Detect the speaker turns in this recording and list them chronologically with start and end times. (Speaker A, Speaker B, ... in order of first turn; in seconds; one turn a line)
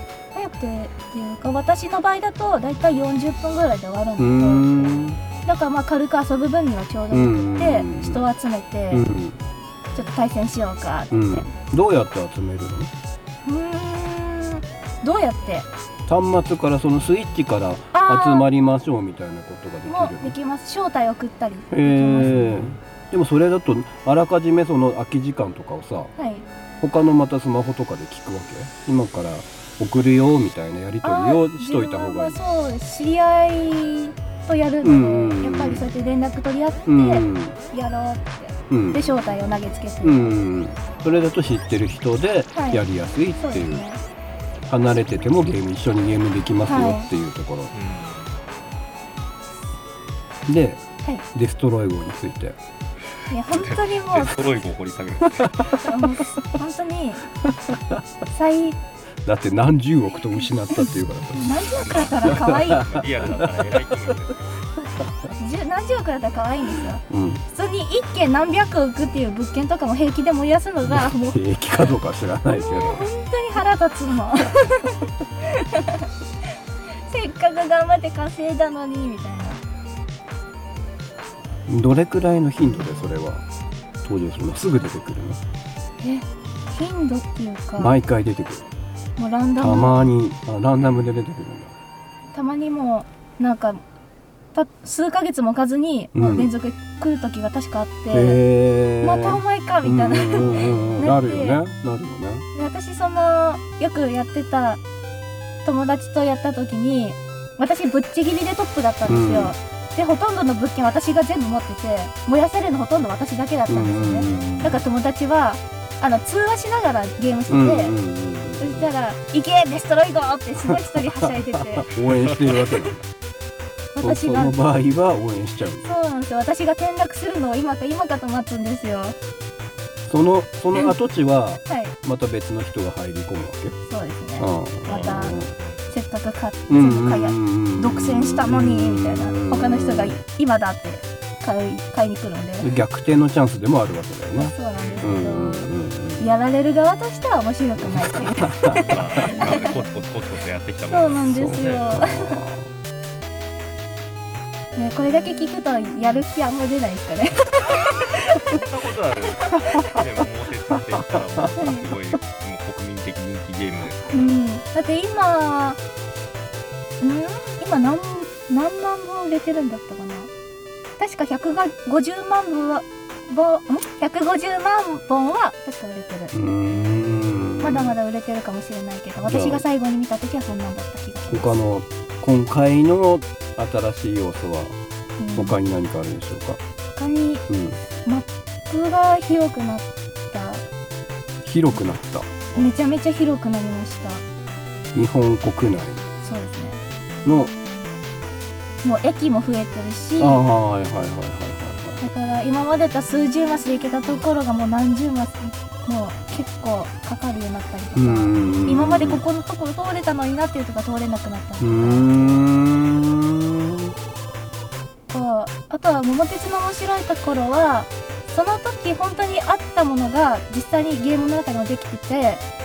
Speaker A: 0.3-9.1
Speaker B: 4.2-5.2
Speaker B: 7.1-8.2
Speaker B: 8.9-9.4
Speaker A: 9.9-11.5
Speaker B: 11.1-12.9
Speaker A: 13.4-15.7
Speaker B: 16.1-20.3
Speaker A: 17.9-18.5
Speaker A: 19.9-22.4
Speaker B: 21.7-26.1
Speaker A: 26.1-26.5
Speaker B: 26.8-32.4
Speaker A: 31.0-40.4
Speaker B: 34.8-35.9
Speaker B: 36.9-37.6
Speaker B: 38.7-39.1
Speaker B: 40.0-43.8
Speaker A: 42.5-42.8
Speaker A: 43.4-44.0
Speaker B: 44.7-47.7
Speaker A: 46.6-47.1
Speaker C: 47.7-48.4
Speaker B: 50.5-52.6
Speaker A: 53.3-54.4
Speaker C: 53.5-55.7
Speaker A: 55.7-57.2
Speaker A: 58.3-58.8
Speaker B: 59.2-63.8
Speaker A: 61.4-63.0
Speaker C: 61.9-64.5
Speaker A: 65.3-71.4
Speaker B: 67.1-67.4
Speaker B: 70.8-73.1
Speaker A: 72.5-76.1
Speaker A: 77.1-79.6
Speaker B: 81.7-83.4
Speaker B: 84.0-85.4
Speaker A: 86.0-88.0
Speaker B: 87.8-88.7
Speaker A: 89.2-90.1
Speaker B: 89.6-91.7
Speaker C: 90.8-91.1
Speaker A: 92.3-93.8
Speaker A: 94.5-98.4
Speaker B: 96.1-96.5
Speaker B: 98.1-102.5
Speaker A: 99.0-101.6
Speaker A: 102.5-104.8
Speaker A: 105.6-118.0
Speaker B: 109.0-109.5
Speaker B: 113.7-114.8
Speaker B: 117.5-118.9
Speaker A: 118.5-121.9
Speaker B: 120.6-123.0
Speaker C: 122.1-122.6
Speaker A: 123.9-124.6
Speaker B: 124.0-125.8
Speaker A: 125.8-129.1
Speaker B: 130.1-133.8
Speaker A: 131.7-131.9
Speaker A: 133.8-142.7
Speaker B: 134.4-135.5
Speaker C: 134.8-135.8
Speaker B: 136.7-140.2
Speaker B: 142.6-146.3
Speaker A: 144.3-149.8
Speaker C: 144.8-145.1
Speaker B: 147.8-149.3
Speaker C: 148.9-151.9
Speaker A: 150.9-152.4
Speaker B: 151.3-152.7
Speaker A: 154.7-158.6
Speaker C: 158.5-164.4
Speaker A: 159.4-160.0
Speaker A: 161.6-161.8
Speaker A: 164.1-165.8
Speaker A: 167.0-170.3
Speaker A: 171.0-176.3
Speaker B: 176.3-177.9
Speaker A: 177.6-181.6
Speaker B: 179.2-179.6
Speaker B: 181.3-184.8
Speaker A: 185.2-185.6
Speaker B: 185.3-186.6
Speaker A: 186.9-187.4
Speaker B: 187.5-187.8
Speaker A: 188.0-190.6
Speaker B: 191.4-192.3
Speaker A: 192.5-194.2
Speaker B: 194.9-196.0
Speaker A: 196.2-196.8
Speaker B: 197.2-197.5
Speaker A: 198.8-200.4
Speaker B: 200.2-202.0
Speaker A: 202.0-212.5
Speaker B: 207.9-209.2
Speaker B: 211.6-213.9
Speaker A: 215.1-222.4